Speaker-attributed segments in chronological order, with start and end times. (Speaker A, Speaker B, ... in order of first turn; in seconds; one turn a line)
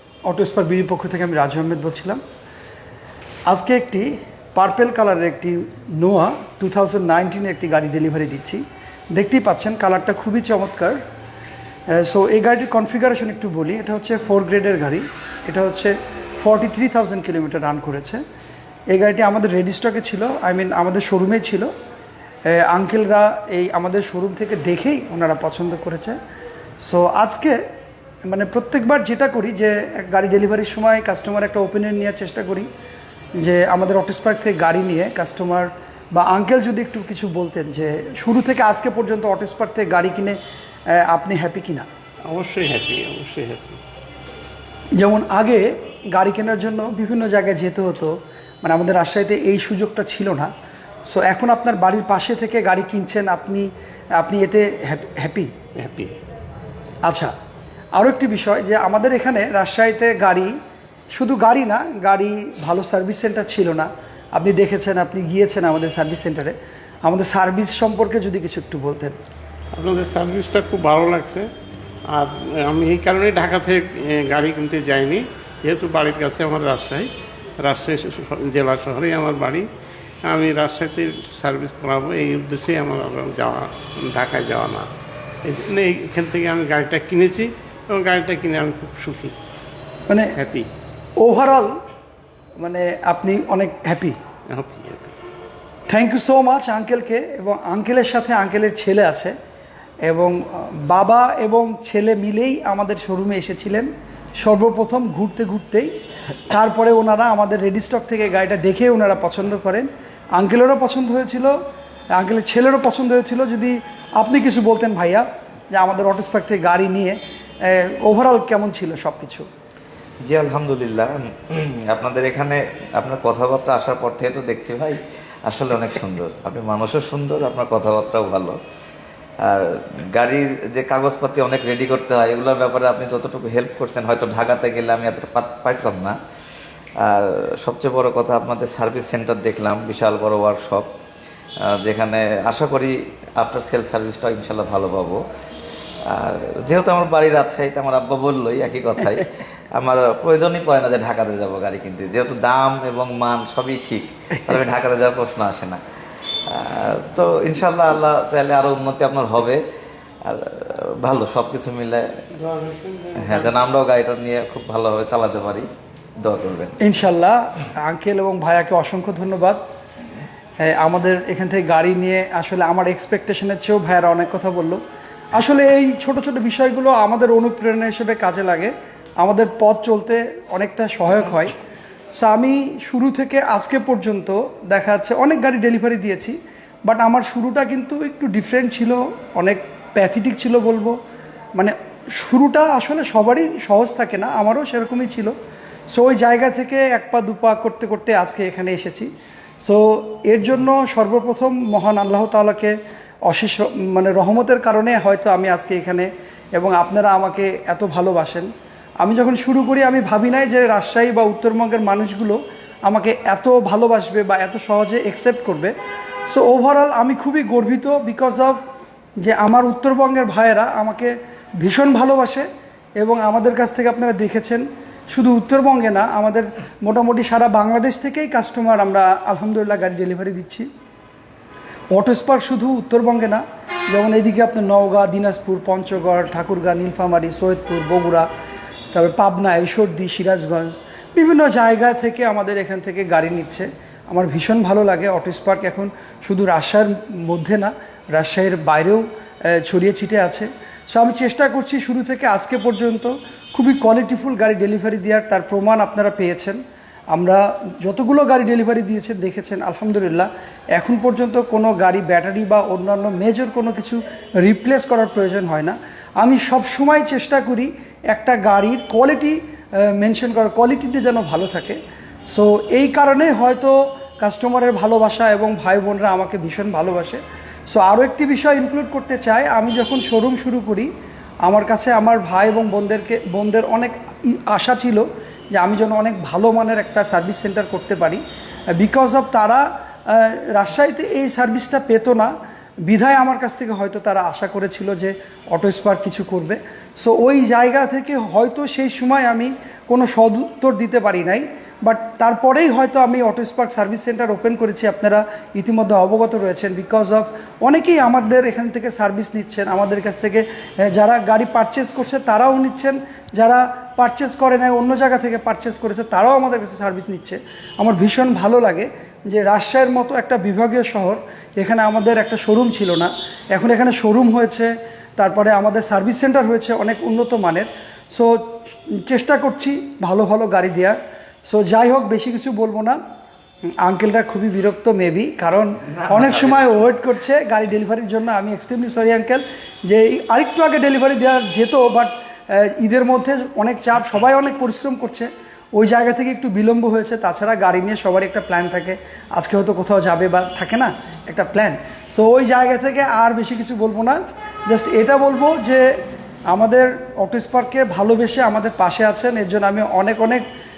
Speaker A: 0.2-2.2
Speaker A: 3.5-11.0
Speaker A: 11.9-18.2
Speaker A: 18.9-21.7
Speaker A: 22.4-26.2
Speaker A: 26.8-27.6
Speaker A: 28.2-32.7
Speaker A: 33.4-40.4
Speaker A: 40.9-41.9
Speaker B: 42.3-43.8
Speaker A: 45.0-50.5
Speaker A: 51.0-55.5
Speaker B: 55.8-56.2
Speaker A: 57.0-57.3
Speaker A: 58.0-60.5
Speaker A: 61.1-69.2
Speaker B: 69.8-71.5
Speaker B: 72.1-77.1
Speaker B: 77.6-79.7
Speaker B: 80.2-84.9
Speaker B: 85.4-89.4
Speaker B: 90.3-90.7
Speaker A: 91.2-91.7
Speaker A: 92.6-94.2
Speaker B: 94.5-95.2
Speaker A: 95.9-99.3
Speaker A: 100.0-105.9
Speaker A: 106.5-111.5
Speaker A: 112.2-119.5
Speaker C: 120.2-128.6
Speaker C: 129.4-136.2
Speaker C: 137.0-140.9
Speaker C: 141.7-145.2
Speaker C: 146.1-155.8
Speaker C: 156.5-159.6
Speaker C: 160.3-162.1
Speaker B: 162.3-163.7
Speaker C: 163.2-165.7
Speaker C: 166.2-166.8
Speaker A: 166.8-169.6
Speaker A: 170.6-174.8
Speaker A: 175.3-181.6
Speaker A: 182.2-190.9
Speaker A: 191.6-195.3
Speaker A: 195.9-199.1
Speaker A: 199.6-202.8
Speaker A: 203.3-208.5
Speaker A: 209.0-215.7
Speaker A: 216.3-218.6
Speaker A: 219.2-222.5
Speaker A: 223.0-230.7
Speaker A: 231.9-238.3
Speaker A: 238.9-256.6
Speaker A: 257.1-271.8
Speaker A: 272.3-280.9
Speaker A: 281.5-288.2
Speaker A: 288.7-292.3
Speaker A: 292.9-333.0
Speaker A: 333.8-355.9
Speaker C: 336.0-336.8
Speaker A: 356.5-360.4